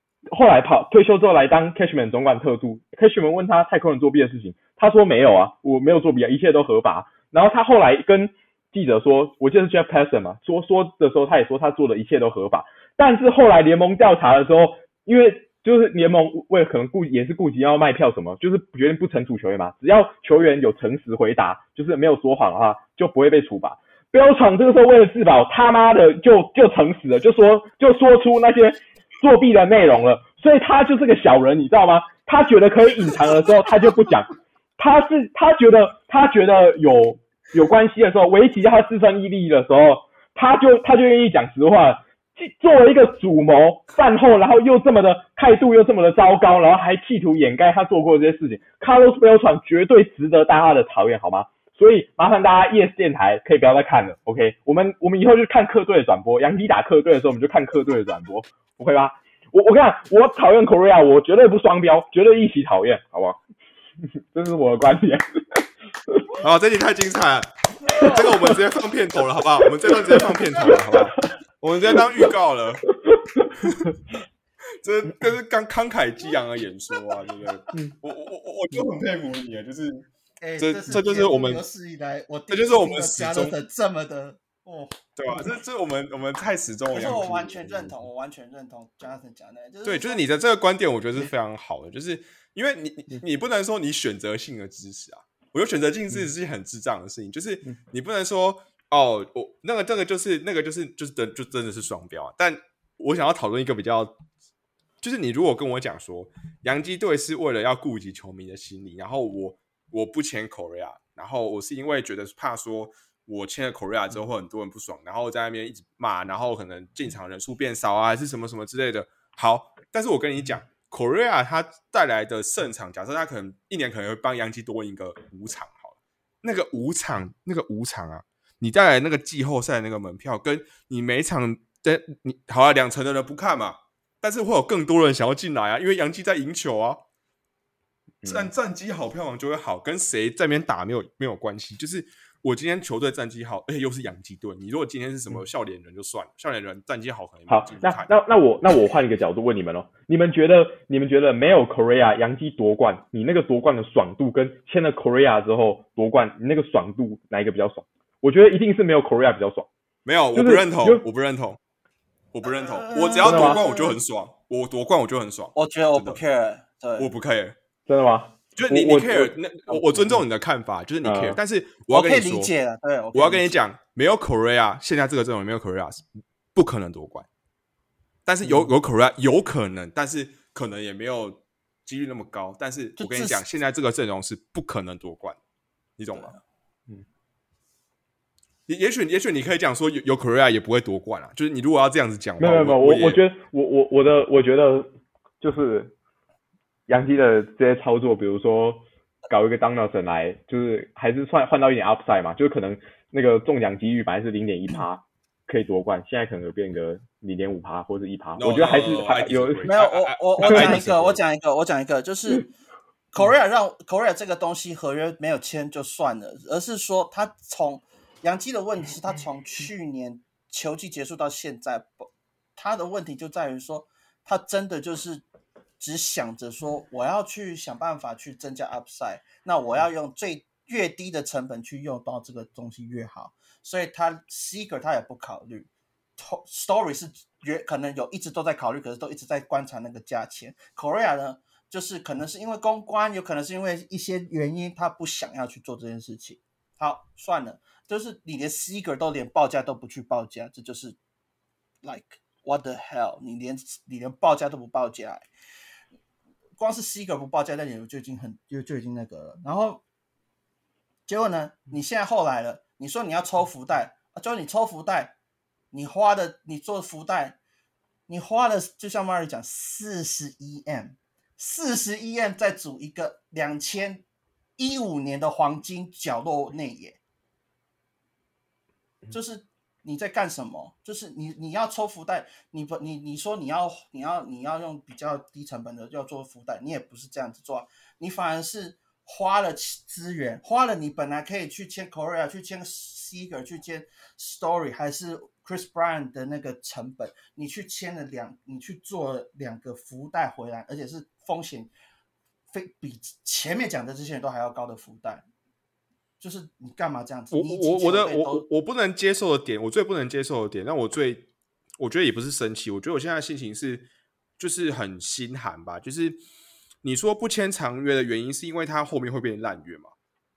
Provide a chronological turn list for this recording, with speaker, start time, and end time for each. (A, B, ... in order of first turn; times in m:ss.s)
0:00.3-1:03.4 A
1:04.3-1:06.2 A
1:06.4-1:12.9 B
1:08.0-1:08.6 A
1:09.8-1:11.1 A
1:11.9-1:12.3 A
1:12.9-1:13.6 A
1:13.6-1:13.9 B
1:14.8-1:20.1 B
1:20.4-1:25.0 C
1:20.6-1:21.6 B
1:22.5-1:23.5 B
1:25.2-1:27.9 B
1:26.9-1:30.2 C
1:29.8-1:44.2 B
1:45.0-2:17.0 B
2:18.2-2:18.5 A
2:18.2-2:28.1 B
2:27.5-2:39.7 A
2:40.0-2:41.6 B
2:40.3-2:41.0 A
2:42.3-2:46.2 B
2:42.4-2:44.0 C
2:43.2-2:43.6 A
2:45.6-2:47.1 C
2:47.0-2:47.6 B
2:47.9-2:50.2 A
2:48.6-2:52.5 B
2:51.0-2:51.4 A
2:51.9-2:53.6 C
2:53.1-2:56.0 B
2:56.6-2:57.3 B
2:58.3-3:05.4 B
2:58.4-2:58.7 A
3:03.0-3:03.4 C
3:06.0-3:06.4 B
3:06.1-3:06.4 C
3:08.7-3:13.2 B
3:12.4-3:15.9 A
3:16.9-3:29.7 A
3:28.4-3:31.2 B
3:29.7-3:32.5 C
3:30.4-3:30.9 A
3:33.1-3:42.0 C
3:42.6-3:45.2 C
3:45.8-4:11.0 C
4:11.8-4:15.3 C
4:16.6-4:19.8 C
4:21.1-4:25.2 C
4:25.7-4:27.4 C
4:28.1-4:34.0 C
4:34.6-4:37.0 C
4:39.1-5:01.7 C
5:02.5-5:05.3 C
5:06.2-5:08.4 C
5:07.3-5:11.3 B
5:11.8-5:13.9 B
5:14.4-5:16.2 B
5:16.8-5:19.9 B